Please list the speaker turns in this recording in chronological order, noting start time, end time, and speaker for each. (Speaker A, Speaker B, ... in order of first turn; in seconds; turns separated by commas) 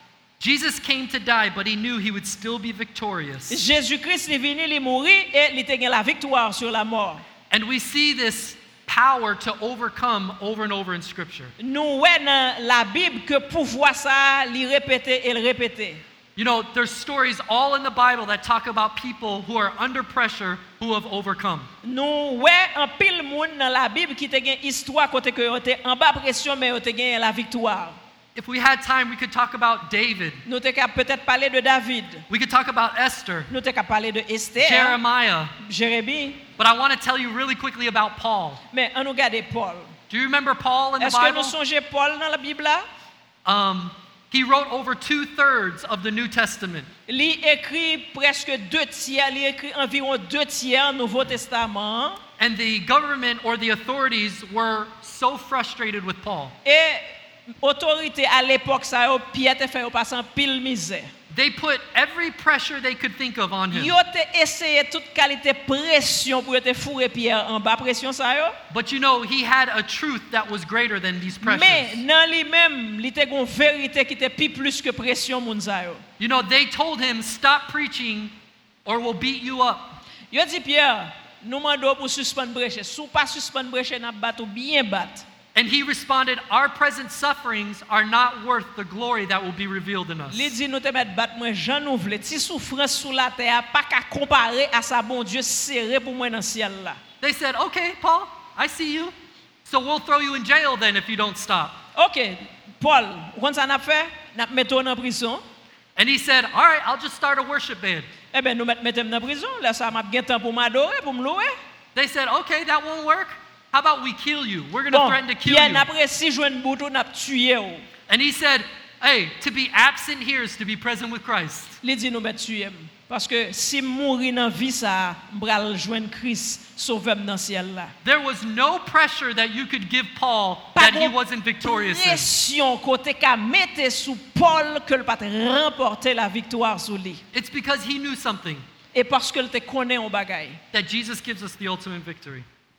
Speaker A: 0.4-3.6, Speaker B: 3.5-7.2, Speaker A: 7.5-11.5, Speaker B: 11.6-16.0, Speaker A: 16.4-21.7, Speaker B: 21.8-28.0, Speaker A: 28.3-30.4, Speaker B: 30.4-32.2, Speaker A: 32.3-33.5, Speaker B: 33.5-35.0, Speaker A: 34.6-35.5, Speaker B: 35.6-36.4, Speaker A: 36.6-38.6, Speaker B: 38.7-39.9, Speaker A: 40.1-41.5, Speaker B: 41.0-42.8, Speaker A: 43.4-46.9, Speaker B: 47.1-52.2, Speaker A: 52.4-56.5, Speaker B: 56.6-61.1, Speaker A: 61.3-64.0, Speaker B: 63.7-68.6, Speaker A: 68.7-72.0, Speaker B: 71.4-76.0, Speaker A: 76.2-78.3, Speaker A: 78.8-80.0, Speaker B: 80.3-85.2, Speaker A: 85.5-90.5, Speaker B: 90.3-97.0, Speaker A: 97.2-99.1, Speaker A: 99.7-101.8, Speaker B: 101.9-105.4, Speaker A: 106.0-108.1, Speaker B: 108.3-111.5, Speaker A: 111.9-115.8, Speaker B: 114.9-117.8, Speaker A: 118.1-121.8, Speaker B: 121.8-127.9, Speaker A: 128.0-132.3, Speaker B: 130.7-137.2, Speaker A: 137.3-138.6, Speaker B: 138.9-140.6, Speaker A: 140.7-142.4